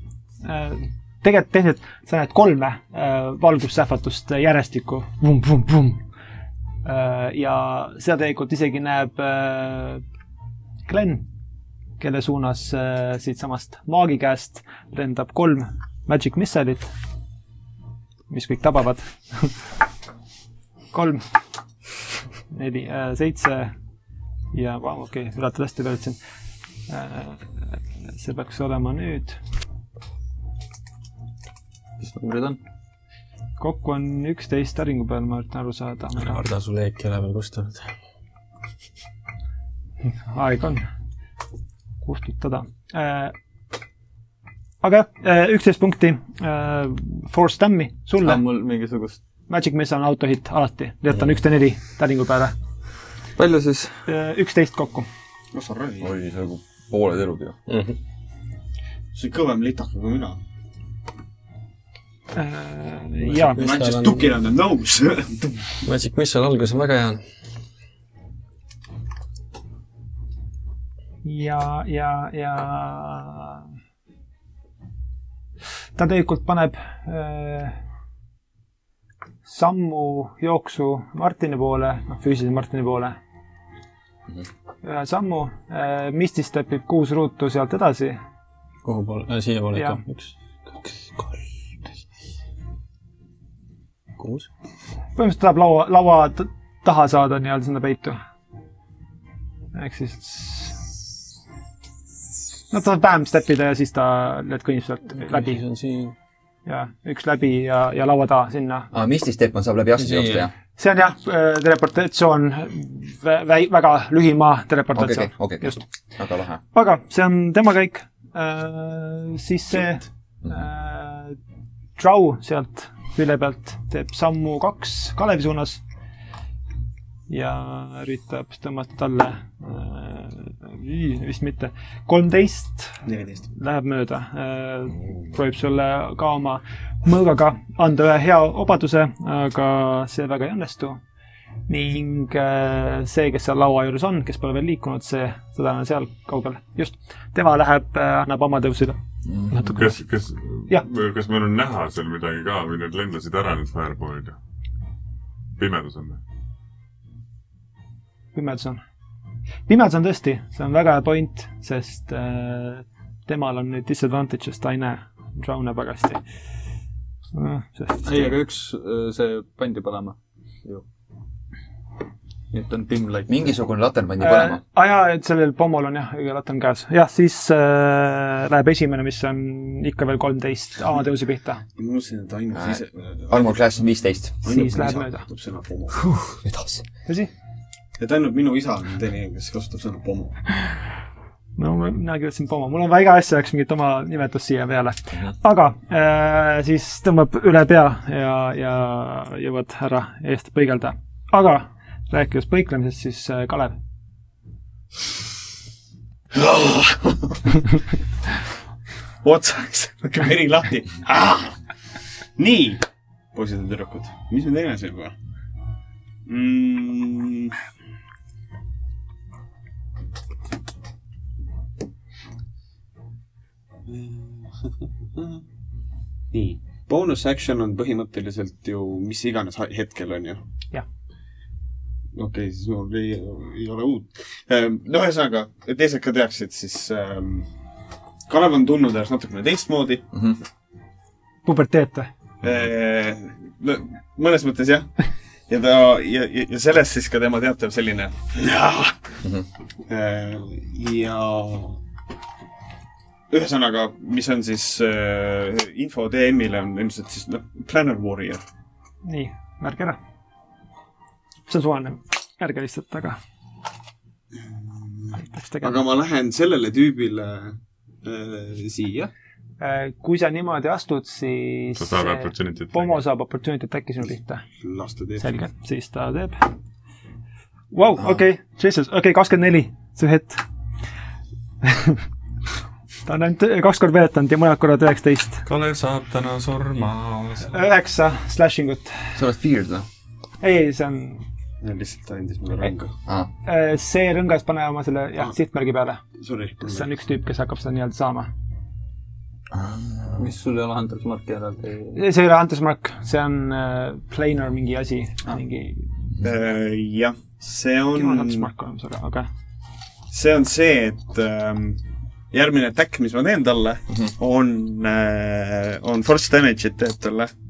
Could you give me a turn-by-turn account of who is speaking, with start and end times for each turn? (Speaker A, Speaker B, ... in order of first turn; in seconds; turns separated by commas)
Speaker A: 0.4-6.0, Speaker A: 6.8-10.0, Speaker A: 10.9-11.3, Speaker A: 12.0-16.9, Speaker A: 18.3-19.5, Speaker A: 20.9-21.2, Speaker A: 22.5-23.7, Speaker A: 24.5-26.2, Speaker A: 26.9-27.4, Speaker A: 28.1-29.4, Speaker B: 32.0-32.6, Speaker A: 33.6-36.4, Speaker C: 36.2-37.9, Speaker A: 40.3-40.9, Speaker A: 42.0-43.3, Speaker A: 44.8-48.5, Speaker B: 48.2-49.2, Speaker A: 49.5-52.5, Speaker B: 53.4-53.9, Speaker A: 54.1-55.1, Speaker D: 55.5-56.1, Speaker E: 56.0-57.6, Speaker C: 57.7-58.0, Speaker D: 59.1-60.4, Speaker A: 62.3-63.6, Speaker C: 63.2-64.4, Speaker D: 63.5-65.5, Speaker C: 65.8-67.2, Speaker A: 71.2-73.6, Speaker A: 76.0-77.8, Speaker A: 79.5-83.2, Speaker A: 84.8-88.2, Speaker C: 88.8-90.3, Speaker C: 90.8-91.4, Speaker C: 94.2-94.5, Speaker A: 95.2-98.2, Speaker A: 99.8-100.8, Speaker A: 102.7-105.6, Speaker C: 105.2-106.2, Speaker A: 106.7-108.9, Speaker E: 108.9-110.5, Speaker C: 110.0-110.5, Speaker A: 110.8-115.8, Speaker E: 115.0-116.6, Speaker A: 116.7-121.4, Speaker A: 122.0-125.8, Speaker A: 127.3-133.0, Speaker D: 133.1-133.4, Speaker A: 133.5-141.0, Speaker A: 141.7-149.0, Speaker A: 149.5-149.9, Speaker F: 149.5-154.4, Speaker F: 155.6-156.2, Speaker A: 158.3-158.8, Speaker A: 159.7-166.2, Speaker A: 167.3-168.4, Speaker B: 168.0-170.8, Speaker B: 172.5-173.5, Speaker E: 173.3-174.6, Speaker A: 174.2-181.6, Speaker D: 181.8-183.6, Speaker E: 182.5-184.4, Speaker D: 184.4-186.0, Speaker A: 184.5-185.3, Speaker E: 185.9-186.8, Speaker A: 187.1-187.3, Speaker D: 188.0-190.4, Speaker A: 191.6-203.8, Speaker D: 206.3-207.4, Speaker D: 209.2-211.6, Speaker D: 212.4-215.1, Speaker D: 216.3-217.5, Speaker D: 223.9-224.5, Speaker D: 225.2-225.4, Speaker D: 226.3-230.4, Speaker D: 232.2-237.5, Speaker D: 238.3-240.1, Speaker E: 240.1-240.4, Speaker A: 241.4-242.1, Speaker D: 242.4-244.9, Speaker D: 245.5-248.9, Speaker D: 249.9-251.8, Speaker D: 253.3-258.4, Speaker A: 259.0-260.0, Speaker A: 261.5-263.2, Speaker D: 264.4-269.1, Speaker A: 265.2-265.8, Speaker A: 269.6-274.4, Speaker F: 271.8-273.0, Speaker D: 274.6-275.4, Speaker A: 275.2-276.5, Speaker A: 277.7-280.4, Speaker A: 281.6-282.0, Speaker A: 283.1-285.4, Speaker F: 285.5-287.6, Speaker A: 287.5-289.1, Speaker E: 289.1-289.9, Speaker A: 290.4-291.2, Speaker D: 291.6-292.9, Speaker A: 293.4-296.0, Speaker D: 296.2-296.9, Speaker A: 296.6-298.3, Speaker E: 299.5-300.3, Speaker B: 300.2-302.0, Speaker A: 301.9-305.9, Speaker D: 306.2-308.5, Speaker A: 307.9-309.3, Speaker D: 310.1-311.8, Speaker D: 312.3-317.3